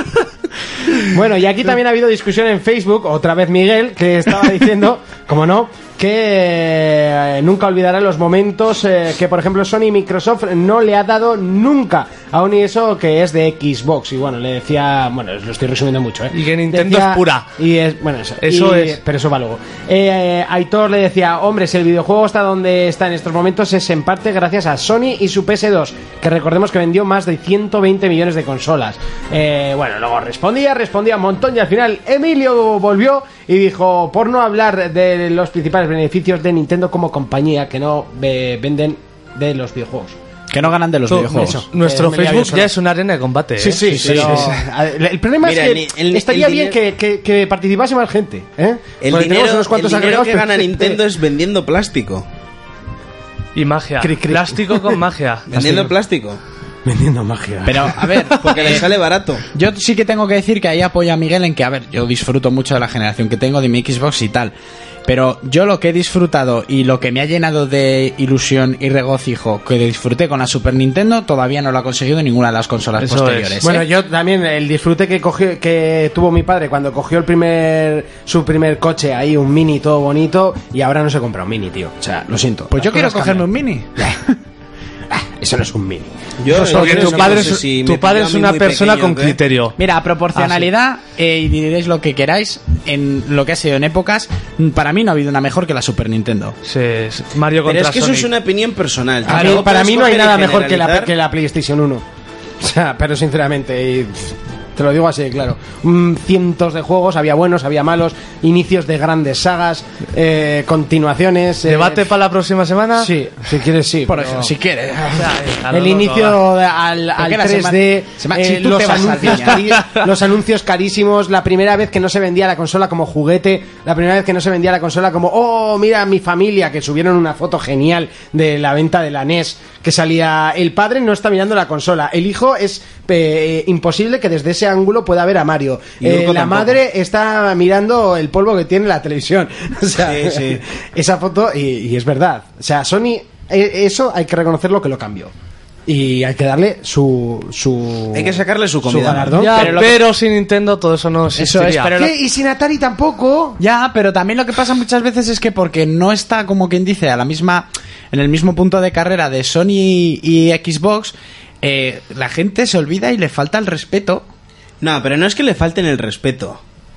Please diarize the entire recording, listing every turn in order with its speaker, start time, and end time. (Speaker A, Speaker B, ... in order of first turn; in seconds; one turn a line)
Speaker A: 1.1-40.2
Speaker B: 16.3-17.5
Speaker B: 18.4-19.0
Speaker C: 40.5-41.6
Speaker B: 41.1-44.5
Speaker A: 41.3-42.7
Speaker A: 43.6-51.0
Speaker C: 43.8-44.5
Speaker D: 44.0-44.3
Speaker D: 45.4-46.8
Speaker D: 49.0-52.2
Speaker B: 53.5-55.5
Speaker A: 54.0-55.0
Speaker D: 55.5-56.4
Speaker A: 55.5-55.9
Speaker A: 56.9-58.2
Speaker C: 57.6-58.9
Speaker D: 58.4-59.4
Speaker C: 59.5-64.5
Speaker C: 65.1-73.9
Speaker B: 73.0-73.6
Speaker A: 73.6-83.5
Speaker C: 82.7-84.4
Speaker A: 85.1-87.6
Speaker D: 86.4-89.4
Speaker B: 86.6-89.8
Speaker C: 89.8-96.6
Speaker B: 90.3-90.7
Speaker B: 96.7-98.3
Speaker D: 97.7-101.1
Speaker A: 99.2-102.0
Speaker C: 99.3-99.6
Speaker A: 102.6-112.1
Speaker B: 111.7-113.1
Speaker A: 113.0-114.5
Speaker C: 114.1-115.3
Speaker B: 115.1-116.4
Speaker A: 115.7-145.3
Speaker C: 117.2-119.8
Speaker D: 136.0-136.7
Speaker D: 140.0-140.6
Speaker A: 145.8-149.8
Speaker D: 148.1-149.4
Speaker B: 149.3-151.9
Speaker C: 149.5-150.0
Speaker C: 151.4-152.1
Speaker A: 151.9-153.6
Speaker C: 153.6-164.2
Speaker D: 164.8-166.6